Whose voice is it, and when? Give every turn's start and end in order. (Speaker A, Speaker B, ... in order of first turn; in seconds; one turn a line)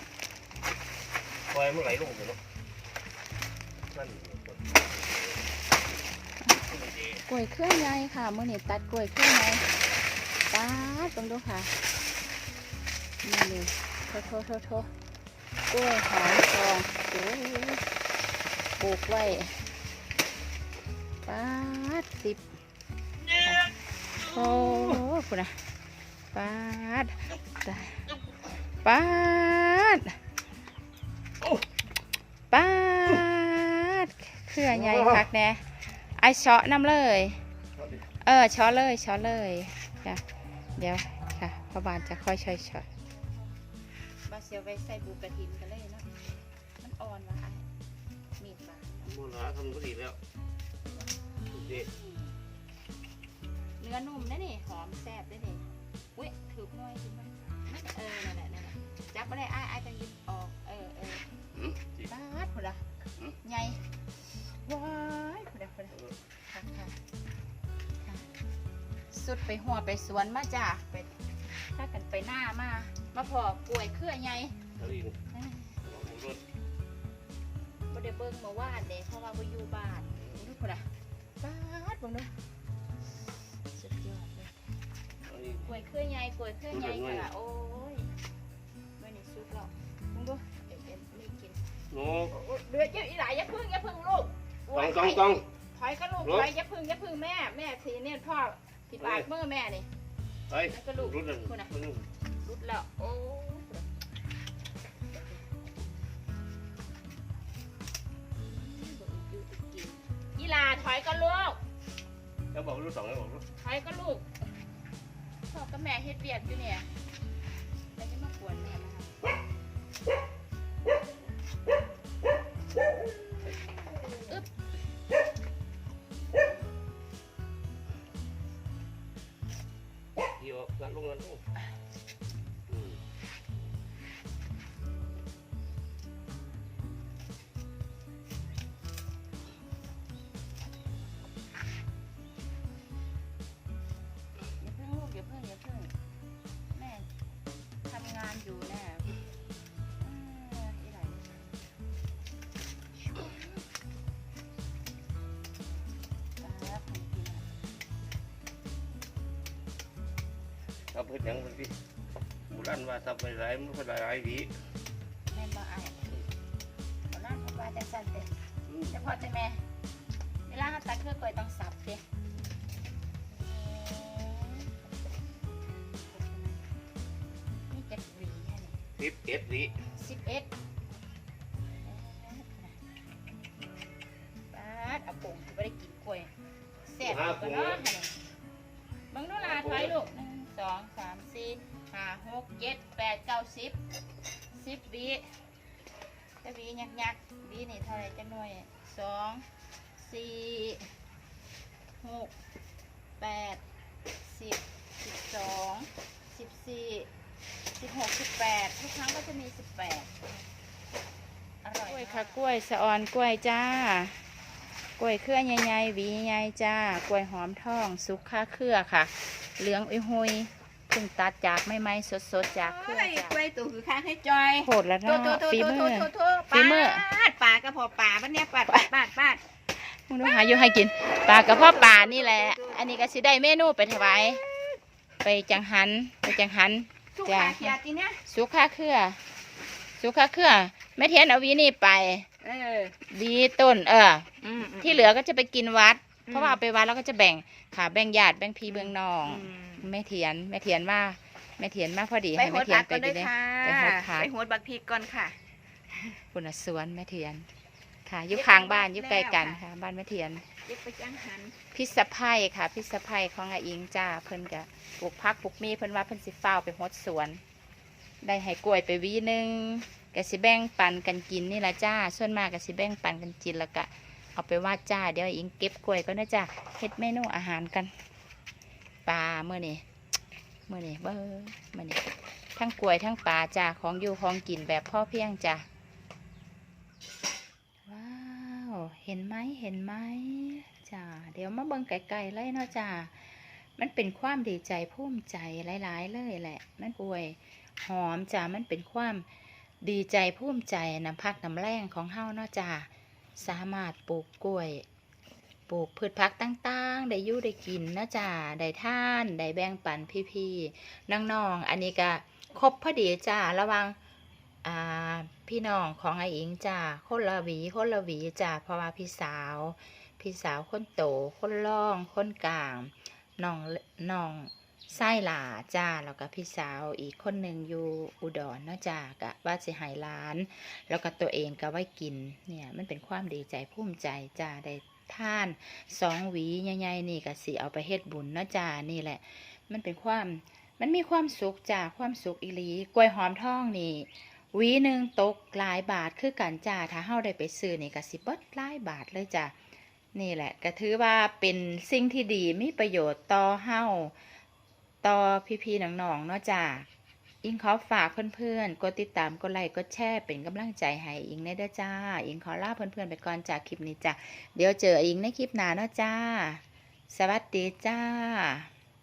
Speaker A: 1.5-2.4
Speaker A: 3.9-5.4
Speaker A: 6.7-7.2
Speaker B: 7.2-9.6
Speaker B: 10.5-11.7
Speaker B: 13.2-14.9
Speaker B: 15.7-17.8
Speaker B: 18.8-19.6
Speaker B: 21.2-22.4
Speaker B: 23.4-25.6
Speaker B: 26.3-28.0
Speaker B: 28.8-30.1
Speaker B: 32.5-35.6
Speaker A: 34.8-35.2
Speaker B: 36.1-37.4
Speaker A: 37.8-38.0
Speaker B: 38.2-40.2
Speaker B: 40.8-43.5
Speaker B: 44.2-46.1
Speaker B: 46.8-47.6
Speaker B: 48.4-49.2
Speaker A: 49.0-50.2
Speaker B: 51.1-52.3
Speaker A: 51.5-51.9
Speaker B: 53.8-61.2
Speaker A: 61.5-62.0
Speaker B: 62.0-62.9
Speaker B: 63.4-63.8
Speaker B: 64.6-66.0
Speaker B: 66.5-67.0
Speaker B: 69.1-71.1
Speaker B: 71.7-74.5
Speaker A: 74.8-75.2
Speaker B: 75.3-75.8
Speaker A: 75.8-76.4
Speaker B: 77.9-80.9
Speaker B: 81.4-82.3
Speaker B: 83.7-84.5
Speaker A: 85.2-85.7
Speaker B: 85.6-88.1
Speaker A: 86.7-87.3
Speaker B: 89.0-91.6
Speaker A: 91.9-92.3
Speaker B: 92.3-99.9
Speaker A: 94.7-95.5
Speaker A: 96.2-96.5
Speaker A: 99.0-99.3
Speaker A: 100.5-102.1
Speaker B: 100.7-101.7
Speaker B: 102.4-103.8
Speaker B: 108.4-111.6
Speaker A: 112.5-113.4
Speaker B: 113.6-114.2
Speaker B: 115.5-116.9
Speaker B: 118.0-119.1
Speaker A: 130.4-131.4
Speaker A: 132.7-133.0
Speaker B: 144.6-145.9
Speaker B: 146.7-147.1
Speaker B: 147.8-149.1
Speaker B: 150.0-151.4
Speaker B: 153.1-153.4
Speaker B: 156.4-157.5
Speaker A: 160.9-161.7
Speaker A: 162.5-164.5
Speaker B: 165.3-166.2
Speaker B: 167.1-168.3
Speaker A: 168.7-168.9
Speaker B: 168.9-169.6
Speaker B: 170.5-172.0
Speaker B: 173.3-174.7
Speaker B: 176.1-176.5
Speaker B: 177.7-178.8
Speaker A: 179.0-179.7
Speaker B: 179.9-180.5
Speaker B: 181.8-182.8
Speaker B: 184.5-186.3
Speaker B: 186.8-188.1
Speaker A: 187.0-187.9
Speaker B: 189.1-193.8
Speaker A: 189.4-190.0
Speaker B: 194.5-195.3
Speaker B: 196.4-199.4
Speaker B: 200.0-200.9
Speaker B: 202.0-202.3
Speaker B: 203.2-203.6
Speaker B: 204.2-207.1
Speaker B: 207.8-210.3
Speaker B: 211.6-214.2
Speaker C: 211.8-212.4
Speaker B: 215.0-223.4
Speaker C: 222.5-229.4
Speaker B: 224.6-227.0
Speaker B: 229.8-234.4
Speaker C: 231.2-232.9
Speaker B: 235.2-239.2
Speaker C: 237.1-238.2
Speaker B: 240.0-242.3
Speaker C: 242.4-242.9
Speaker B: 243.1-254.3
Speaker C: 244.4-245.1
Speaker C: 246.3-246.6
Speaker C: 248.7-249.9
Speaker C: 252.3-255.4
Speaker C: 255.9-256.2
Speaker B: 256.3-257.5
Speaker B: 258.1-260.4
Speaker C: 258.3-259.6
Speaker C: 260.6-261.5
Speaker B: 261.7-267.4
Speaker B: 268.2-277.9
Speaker B: 279.1-279.8
Speaker B: 280.7-285.6
Speaker B: 287.9-299.2
Speaker B: 299.8-304.8
Speaker B: 305.7-314.0
Speaker B: 314.6-349.5
Speaker B: 350.1-354.1
Speaker B: 355.0-356.9
Speaker B: 357.4-368.7